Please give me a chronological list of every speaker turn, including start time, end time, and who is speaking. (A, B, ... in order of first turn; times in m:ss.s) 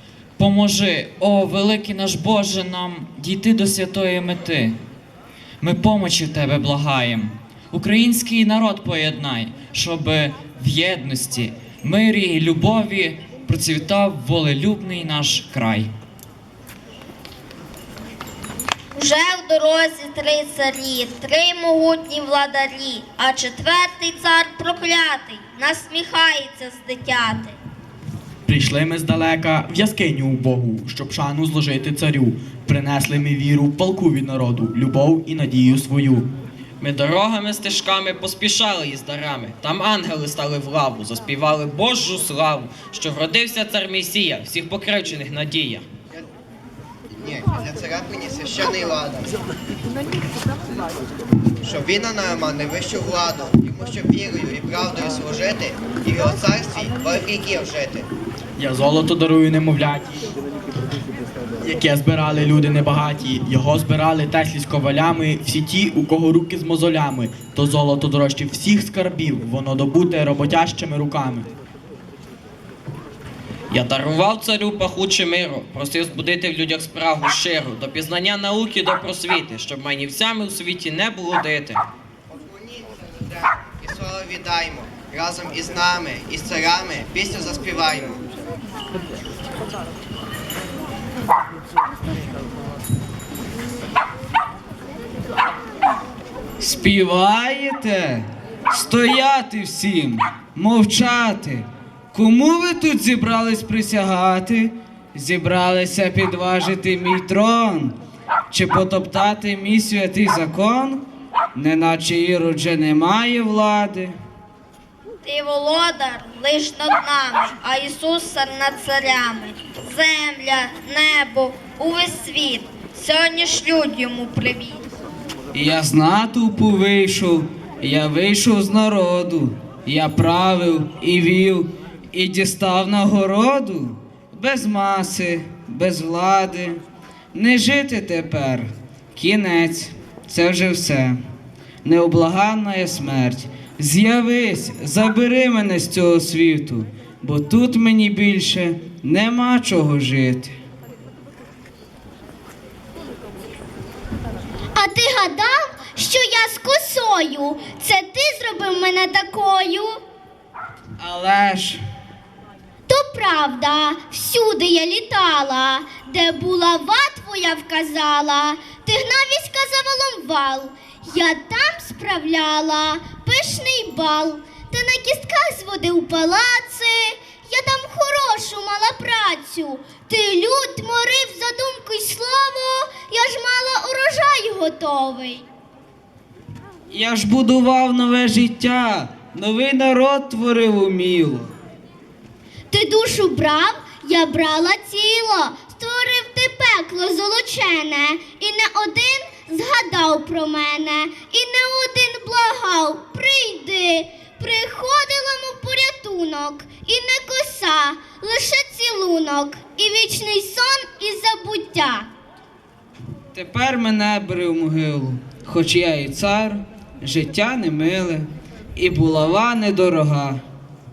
0:00.4-0:04.8 A
0:05.6-0:15.9 A
0:18.9-0:27.5 B
0:28.4-0:36.2 C
0:36.8-0:45.8 D
0:47.2-0:49.3 E
0:51.6-0:58.1 E
0:58.6-1:00.3 C
1:01.6-1:11.5 C
1:13.7-1:21.8 D
1:22.3-1:28.2 E
1:36.6-1:47.9 F
1:48.5-1:51.0 F
1:51.5-1:54.2 F
1:55.2-2:04.8 B
2:05.5-2:16.8 F
2:17.3-2:21.2 F
2:21.8-2:30.5 F
2:34.7-2:40.0 G
2:41.0-2:41.8 F
2:42.9-3:05.4 G
3:06.9-3:11.5 F
3:12.7-3:32.1 G
3:33.3-3:40.4 F